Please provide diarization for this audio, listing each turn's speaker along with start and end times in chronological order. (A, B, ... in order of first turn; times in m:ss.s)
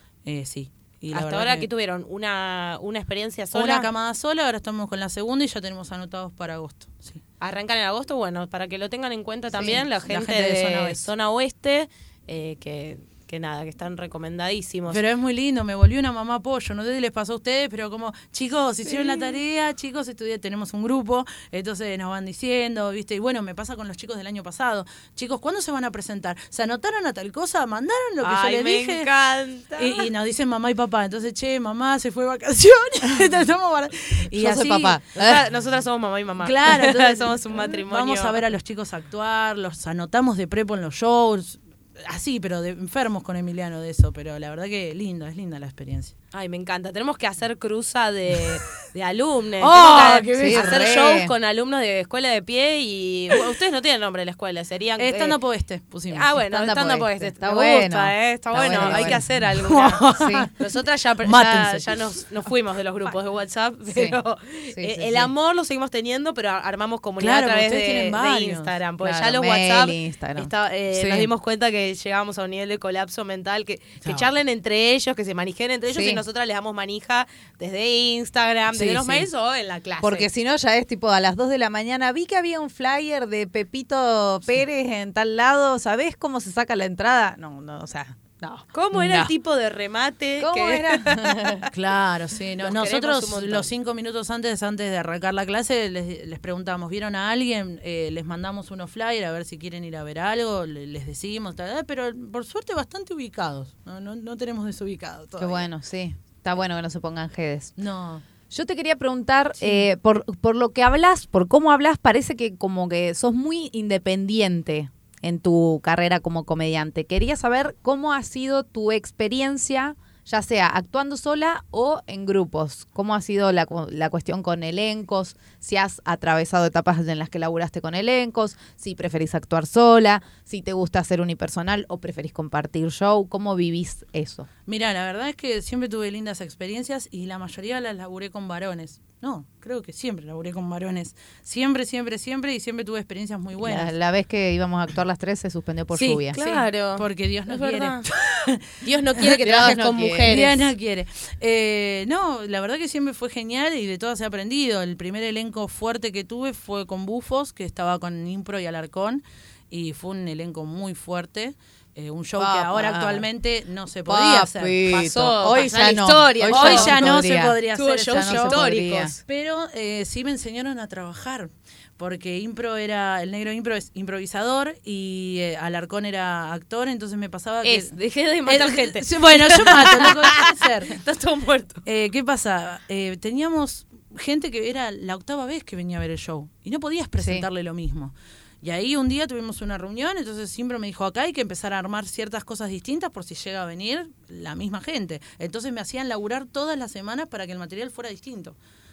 0:00.2-0:01.7 A
0:01.1-0:03.9 B
0:03.5-0:07.2 A
0:07.4-0:15.0 B
0:09.5-0:11.0 A
0:14.9-0:29.1 A
0:18.8-0:19.3 B
0:28.2-0:30.1 B
0:29.8-0:35.0 A
0:34.4-0:35.4 C
0:35.1-0:38.4 B
0:36.4-0:46.1 A
0:46.3-0:55.4 B
0:49.6-0:51.0 A
0:50.2-0:51.3 C
0:55.0-0:56.3 A
0:56.1-1:00.0 B
0:56.5-0:59.2 C
0:58.8-1:00.5 A
1:00.2-1:00.5 C
1:00.6-1:20.3 B
1:01.2-1:01.9 A
1:03.9-1:04.2 C
1:04.7-1:05.3 C
1:07.2-1:08.7 A
1:09.0-1:11.3 C
1:15.9-1:16.2 C
1:18.7-1:19.3 C
1:20.0-1:29.3 C
1:28.7-1:31.7 B
1:30.4-1:31.6 C
1:31.7-1:45.7 A
1:32.6-1:33.7 B
1:45.4-1:47.7 C
1:47.8-1:48.2 A
1:48.5-2:14.5 C
2:14.7-2:23.9 A
2:23.6-2:26.4 C
2:25.9-2:29.3 A
2:26.3-2:28.0 B
2:28.8-2:30.7 B
2:29.4-2:30.4 C
2:30.3-2:44.8 A
2:42.4-2:43.3 C
2:44.1-2:47.6 C
2:44.8-2:47.1 B
2:46.5-2:57.9 A
2:47.7-2:49.2 B
2:48.1-2:49.1 C
2:57.6-3:01.8 B
2:58.4-3:01.0 A
3:01.8-3:18.6 A
3:07.2-3:07.4 C